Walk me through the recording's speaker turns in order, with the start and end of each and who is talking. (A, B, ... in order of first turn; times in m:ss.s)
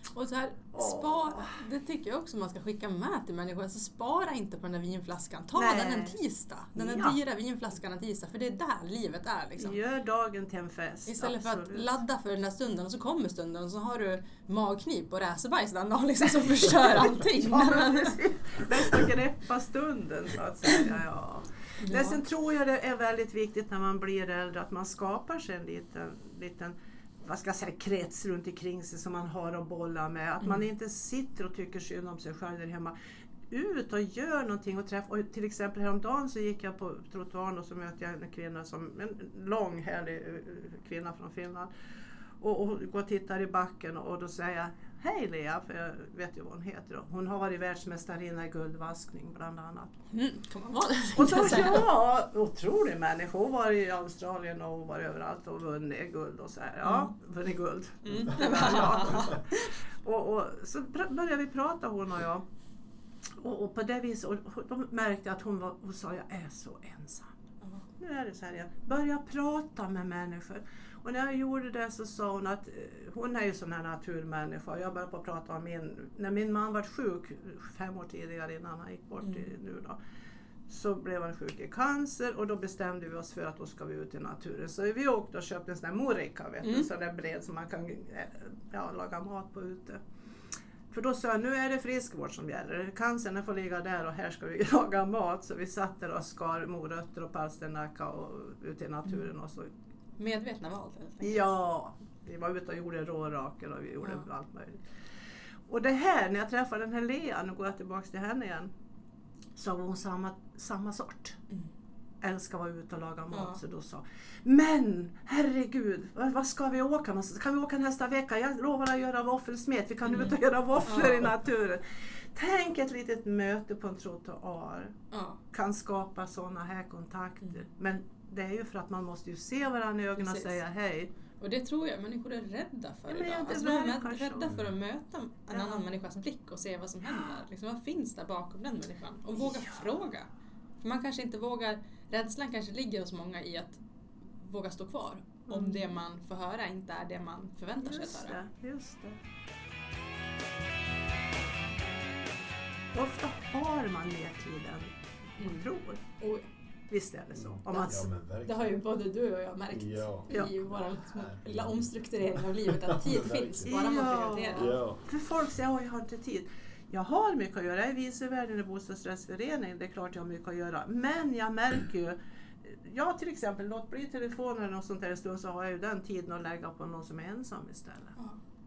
0:00.1-0:09.8 A
0:00.7-0:01.6 B
0:05.5-0:06.2 B
0:06.7-0:07.2 B
0:09.6-0:11.9 B
0:11.1-0:18.2 A
0:17.4-0:32.9 B
0:21.8-0:22.2 A
0:33.5-0:41.7 B
0:42.4-0:50.0 B
0:50.1-0:51.9 A
0:51.1-1:02.4 B
0:56.8-0:57.1 A
0:58.0-0:59.7 A
1:03.4-1:07.3 B
1:08.0-1:20.0 B
1:20.7-1:30.0 B
1:26.6-1:26.9 A
1:30.9-1:39.7 B
1:40.2-1:41.5 A
1:41.2-1:44.8 B
1:45.7-1:48.7 B
1:49.6-1:51.4 B
1:52.2-2:05.0 B
1:53.3-1:53.6 A
2:00.1-2:00.3 A
2:00.8-2:01.3 A
2:05.1-2:05.4 A
2:05.5-2:11.1 B
2:10.2-2:10.6 A
2:11.4-2:20.3 A
2:13.1-2:14.5 B
2:15.5-2:15.9 B
2:19.4-2:19.8 B
2:20.8-2:23.8 A
2:24.4-2:28.4 A
2:25.5-2:25.9 B
2:27.8-2:29.2 B
2:32.9-2:36.0 B
2:35.4-2:36.4 A
2:36.9-2:38.0 B
2:37.5-2:38.7 C
2:38.4-2:44.8 A
2:39.7-2:43.8 C
2:43.6-2:58.2 B
2:44.5-2:45.0 C